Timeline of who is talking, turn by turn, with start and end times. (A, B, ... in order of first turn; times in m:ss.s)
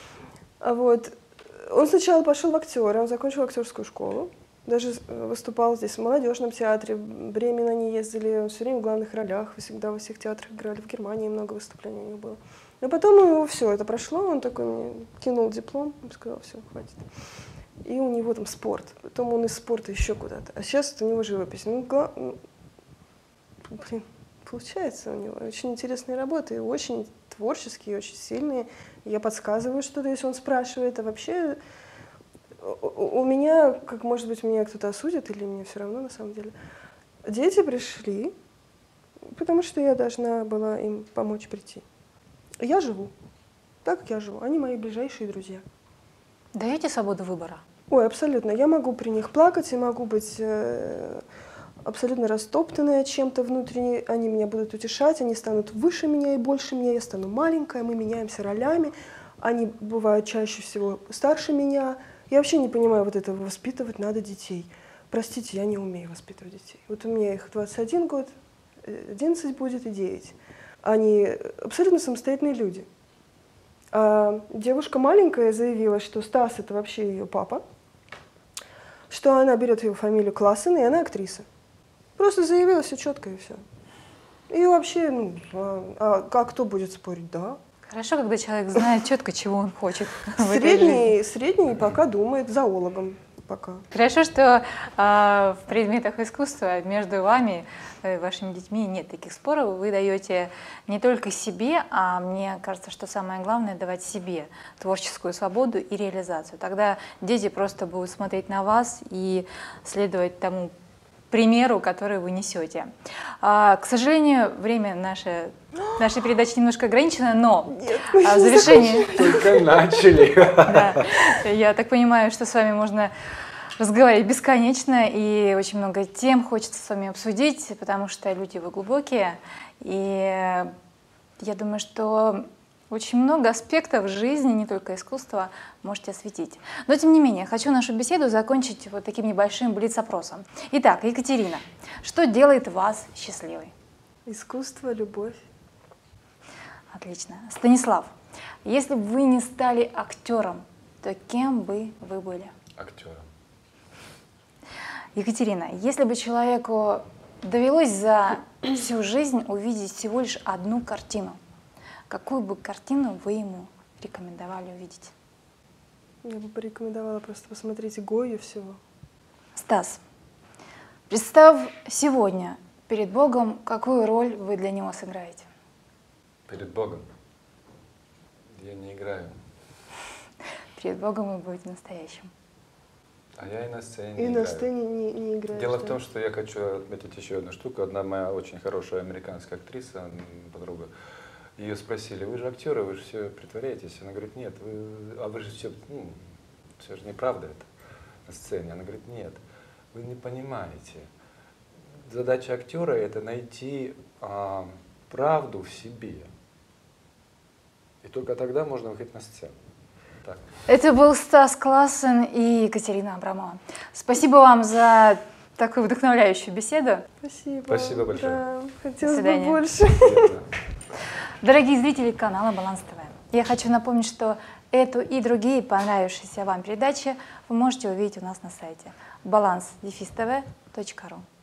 0:00.6-0:17.0 A
0:17.8-0:22.4 A
0:23.7-0:31.6 A
0:32.6-0:36.5 A
0:37.2-0:38.3 A
0:39.3-0:41.8 A
0:42.6-0:43.1 A
0:43.8-0:45.6 A
0:46.5-0:47.6 B
0:47.9-0:51.2 A
0:51.8-1:12.9 A
1:13.9-1:17.6 A
1:19.1-1:21.4 A
1:22.2-1:23.6 A
1:24.5-1:27.6 A
1:27.9-1:31.1 B
1:30.4-1:33.8 A
1:33.9-1:50.7 B
1:51.3-1:59.4 B
1:57.7-1:59.6 A
1:59.0-2:01.1 C
2:00.6-2:03.1 B
2:03.8-2:10.7 B
2:11.4-2:23.7 B
2:24.2-2:25.4 A
2:26.9-2:28.1 B
2:28.6-2:32.5 B
2:32.8-2:33.2 C
2:35.2-2:41.4 B
2:42.1-2:45.1 B
2:46.2-2:48.8 A
2:49.6-2:50.0 B
2:51.1-2:55.5 B
2:56.5-2:57.0 C
2:58.6-2:59.3 C
3:00.8-3:02.3 B
3:03.4-3:04.7 C
3:04.2-3:06.0 A
3:05.5-3:10.9 C
3:11.6-3:16.2 C
3:16.8-3:17.7 C
3:18.2-3:19.4 C
3:19.9-3:21.1 C
3:22.1-3:26.3 C
3:28.0-3:29.6 C
3:30.7-3:37.1 B
3:37.2-3:40.3 A
3:37.7-3:38.4 C
3:39.0-3:39.6 B
3:39.9-3:40.4 C
3:41.4-3:51.2 B